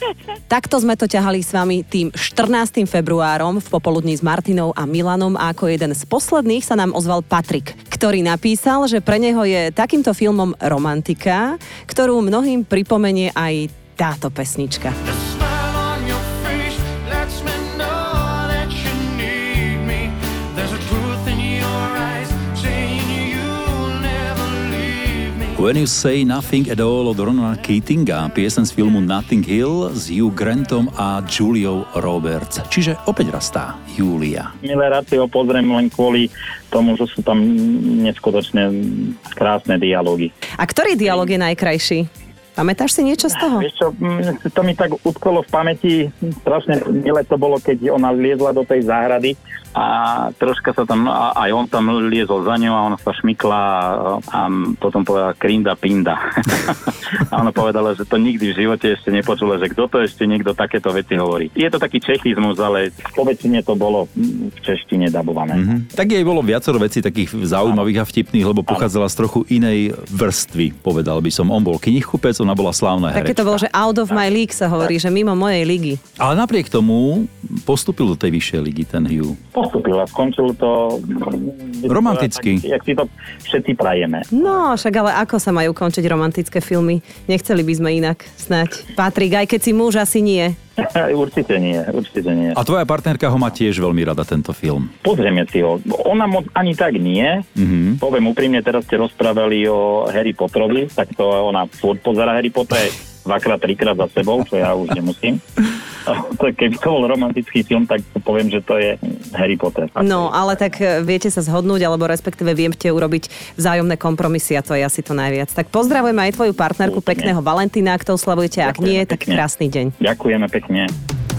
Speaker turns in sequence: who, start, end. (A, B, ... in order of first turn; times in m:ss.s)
0:00.5-0:14.9 A
0:15.2-0:25.5 B
0:25.6-0:34.5 C
0:34.6-0:40.3 D
0:40.6-0:43.6 A
0:43.5-1:05.6 D
1:05.5-1:13.6 C
1:13.1-1:16.0 A
1:16.2-1:19.4 C
1:19.5-1:24.3 D
1:21.9-1:22.6 C
1:24.3-1:30.6 A
1:30.8-1:32.6 D
1:32.5-1:34.9 C
1:35.0-1:37.4 D
1:37.6-1:38.0 C
1:38.0-1:45.4 D
1:46.0-1:50.4 D
1:50.0-1:59.9 A
1:56.8-1:57.3 D
1:58.6-1:59.4 D
2:00.0-2:00.9 D